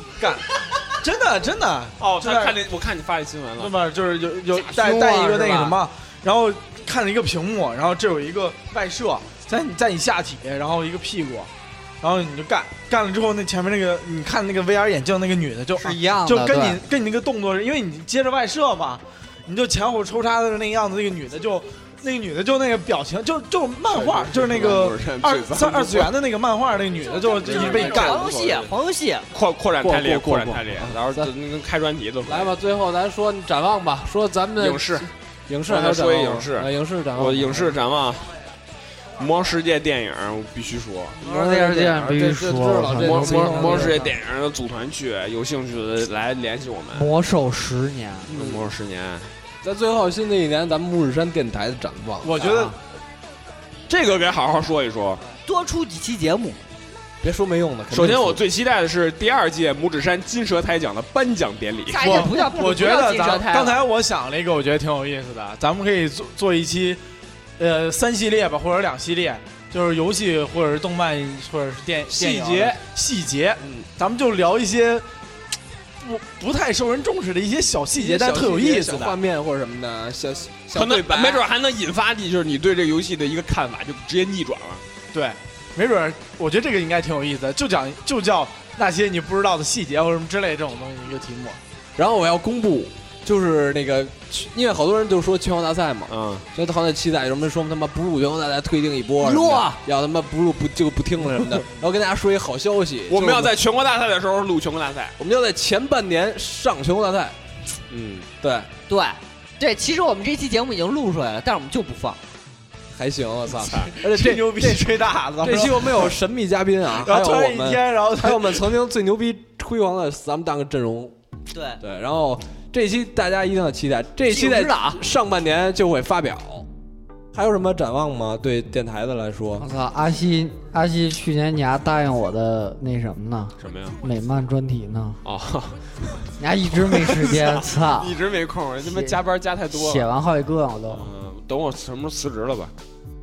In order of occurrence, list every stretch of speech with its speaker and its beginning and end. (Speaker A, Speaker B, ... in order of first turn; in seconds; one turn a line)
Speaker A: 0.2-2.6
Speaker B: 2.0-3.8
Speaker A: 3.6-11.5
Speaker C: 4.5-5.8
Speaker A: 12.0-28.3
Speaker C: 15.8-16.8
Speaker B: 23.9-26.1
Speaker D: 27.4-28.4
Speaker E: 27.4-29.3
Speaker B: 27.5-28.7
Speaker B: 29.3-32.5
Speaker D: 29.8-31.3
Speaker D: 32.3-37.8
Speaker B: 34.6-35.1
Speaker B: 35.7-38.3
Speaker B: 39.2-41.2
Speaker D: 41.2-44.1
Speaker C: 41.2-44.1
Speaker B: 43.0-47.1
Speaker C: 46.9-48.4
Speaker B: 48.3-49.3
Speaker D: 48.3-48.7
Speaker D: 49.6-52.5
Speaker A: 52.2-52.7
Speaker C: 52.4-52.8
Speaker B: 53.9-55.2
Speaker E: 55.4-56.6
Speaker D: 57.2-58.4
Speaker B: 57.9-62.2
Speaker E: 61.9-63.8
Speaker A: 62.0-67.0
Speaker A: 67.6-75.1
Speaker D: 72.1-72.8
Speaker D: 73.6-73.9
Speaker A: 76.0-79.2
Speaker D: 78.0-81.4
Speaker B: 80.7-84.8
Speaker A: 85.1-91.6
Speaker D: 92.0-103.5
Speaker B: 96.1-96.5
Speaker E: 99.2-99.8
Speaker B: 103.1-105.2
Speaker D: 105.2-107.4
Speaker B: 107.9-108.3
Speaker D: 108.4-108.7
Speaker E: 108.9-112.2
Speaker D: 113.0-114.9
Speaker B: 113.6-113.9
Speaker A: 114.0-116.2
Speaker D: 115.4-121.1
Speaker A: 116.9-118.7
Speaker E: 121.5-121.8
Speaker D: 121.8-126.7
Speaker E: 124.3-125.0
Speaker D: 127.3-129.7
Speaker C: 129.6-135.2
Speaker B: 133.6-134.0
Speaker B: 135.2-136.3
Speaker C: 136.4-138.2
Speaker B: 136.8-140.1
Speaker C: 138.8-141.1
Speaker B: 140.9-142.7